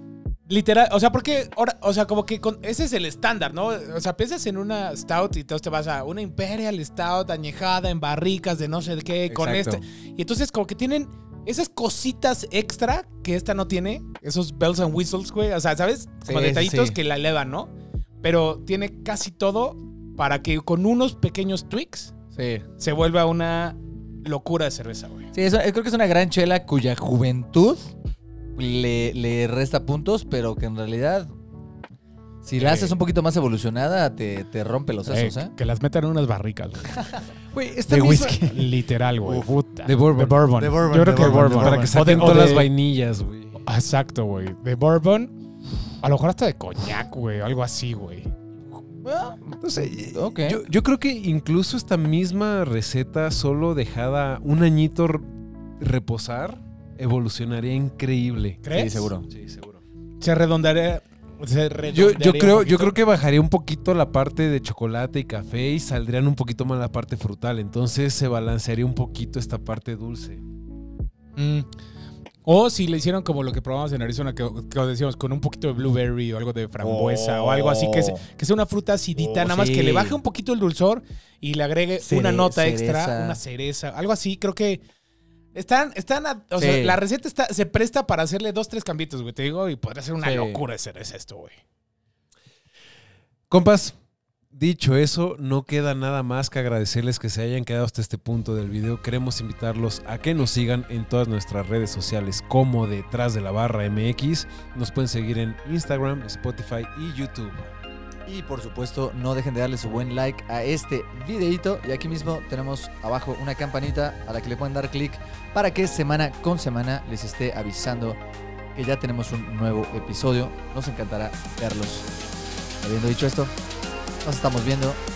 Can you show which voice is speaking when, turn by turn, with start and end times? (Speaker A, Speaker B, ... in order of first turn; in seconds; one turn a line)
Speaker A: 0.5-22.1
Speaker B: 9.3-9.8
Speaker B: 16.2-17.0
Speaker B: 22.3-22.7
Speaker A: 22.8-25.3
Speaker B: 25.3-27.9
Speaker B: 28.6-31.3
Speaker B: 32.4-35.5
Speaker A: 32.6-33.0
Speaker A: 35.1-37.0
Speaker B: 37.0-37.2
Speaker C: 37.5-38.5
Speaker B: 37.9-38.7
Speaker A: 38.2-42.7
Speaker B: 39.2-39.5
Speaker C: 39.9-43.6
Speaker B: 40.5-42.5
Speaker A: 43.6-45.3
Speaker A: 46.0-48.3
Speaker B: 49.0-50.6
Speaker C: 49.6-55.3
Speaker C: 55.8-58.6
Speaker A: 58.6-59.1
Speaker B: 58.7-59.3
Speaker C: 59.3-59.8
Speaker A: 60.2-62.9
Speaker C: 61.9-70.4
Speaker A: 71.4-71.7
Speaker A: 72.5-84.8
Speaker B: 76.8-78.2
Speaker B: 79.2-80.2
Speaker B: 82.0-83.4
Speaker A: 85.5-91.6
Speaker B: 86.6-87.0
Speaker B: 90.2-90.6
Speaker C: 93.5-94.0
Speaker C: 94.5-107.7
Speaker B: 108.3-118.2
Speaker B: 118.8-122.1
Speaker B: 122.8-123.5
Speaker B: 124.2-125.0